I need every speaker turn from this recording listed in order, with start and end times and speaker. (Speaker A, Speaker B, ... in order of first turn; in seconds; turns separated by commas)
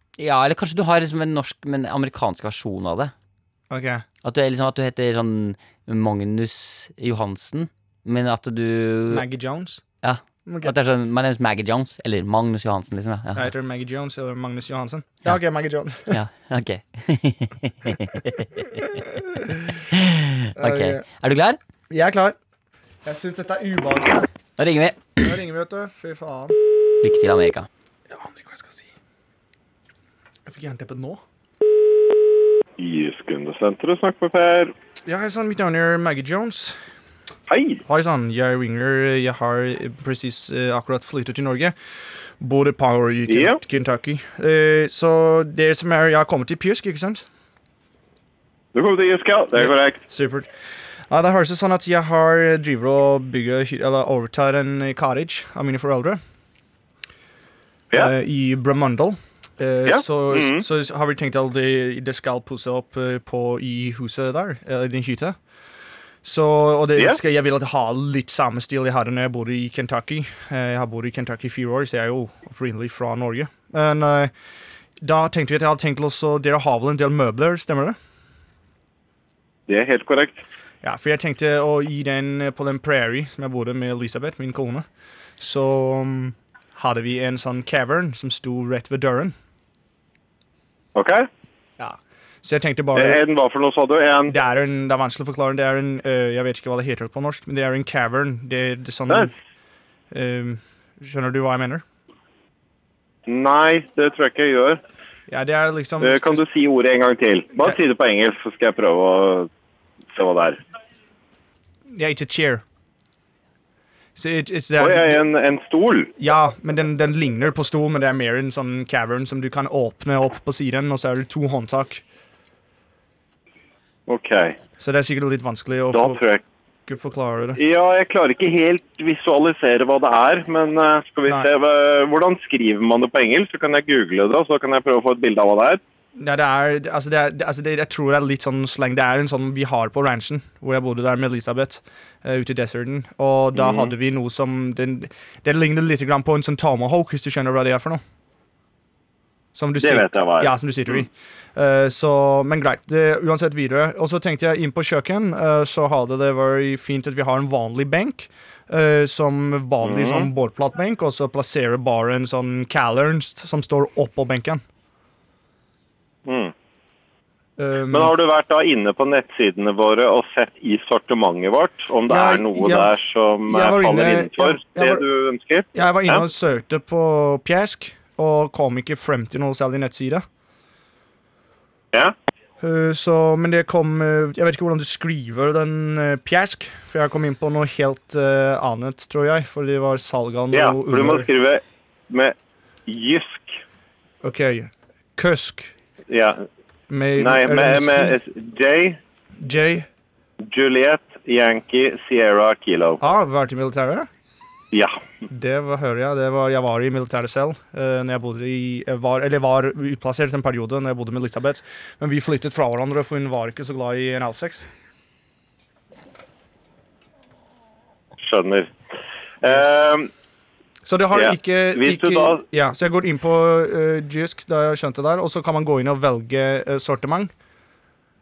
Speaker A: 0.2-3.1, Speaker B: 3.7-4.0, Speaker A: 4.2-9.2, Speaker B: 9.1-9.8, Speaker A: 10.0-13.5, Speaker B: 10.4-10.7, Speaker B: 13.3-16.2, Speaker A: 16.1-19.0, Speaker B: 18.9-19.8, Speaker A: 19.9-21.6, Speaker B: 20.6-21.0, Speaker B: 21.9-22.4, Speaker B: 23.0-24.3, Speaker A: 24.6-25.4, Speaker B: 25.2-26.6, Speaker A: 27.0-27.7, Speaker B: 28.1-28.9, Speaker B: 30.4-31.2, Speaker C: 32.8-34.7, Speaker B: 35.0-36.8, Speaker C: 37.5-37.8, Speaker B: 37.9-41.7, Speaker B: 42.4-47.2, Speaker C: 43.3-43.6, Speaker C: 48.7-50.0, Speaker B: 49.5-50.5, Speaker B: 51.1-56.2, Speaker B: 57.9-65.4, Speaker C: 59.9-60.6, Speaker B: 66.2-74.3, Speaker B: 75.0-78.0, Speaker C: 79.7-80.4, Speaker B: 80.8-84.8, Speaker B: 85.4-89.3, Speaker C: 91.0-91.2, Speaker B: 91.8-93.2, Speaker C: 92.9-94.3, Speaker B: 94.3-99.3, Speaker B: 100.1-101.8, Speaker C: 103.3-104.8, Speaker B: 105.3-106.4, Speaker C: 106.0-109.5, Speaker C: 110.1-110.6, Speaker B: 111.9-112.6, Speaker B: 114.2-115.2, Speaker C: 114.8-116.1, Speaker B: 116.2-122.0, Speaker C: 124.1-124.5, Speaker B: 124.8-126.2, Speaker C: 125.9-126.4, Speaker B: 126.9-127.6, Speaker C: 127.6-135.8, Speaker B: 136.2-148.0, Speaker C: 143.6-143.9, Speaker B: 149.5-164.6, Speaker C: 149.8-151.0, Speaker C: 159.8-160.3, Speaker C: 166.2-166.5, Speaker B: 167.6-168.1, Speaker C: 167.9-176.2, Speaker B: 172.1-172.9, Speaker B: 173.5-175.0, Speaker B: 175.7-180.2, Speaker B: 182.6-191.3, Speaker C: 190.5-192.3, Speaker C: 192.9-193.6, Speaker B: 194.2-195.7, Speaker C: 196.1-196.4, Speaker B: 196.9-198.2, Speaker C: 197.2-199.0, Speaker B: 199.4-199.9, Speaker C: 200.5-203.0, Speaker B: 203.0-204.1, Speaker C: 204.7-205.0, Speaker B: 205.3-214.7, Speaker C: 218.2-218.7, Speaker C: 219.4-220.1, Speaker B: 220.8-227.3, Speaker C: 221.1-222.4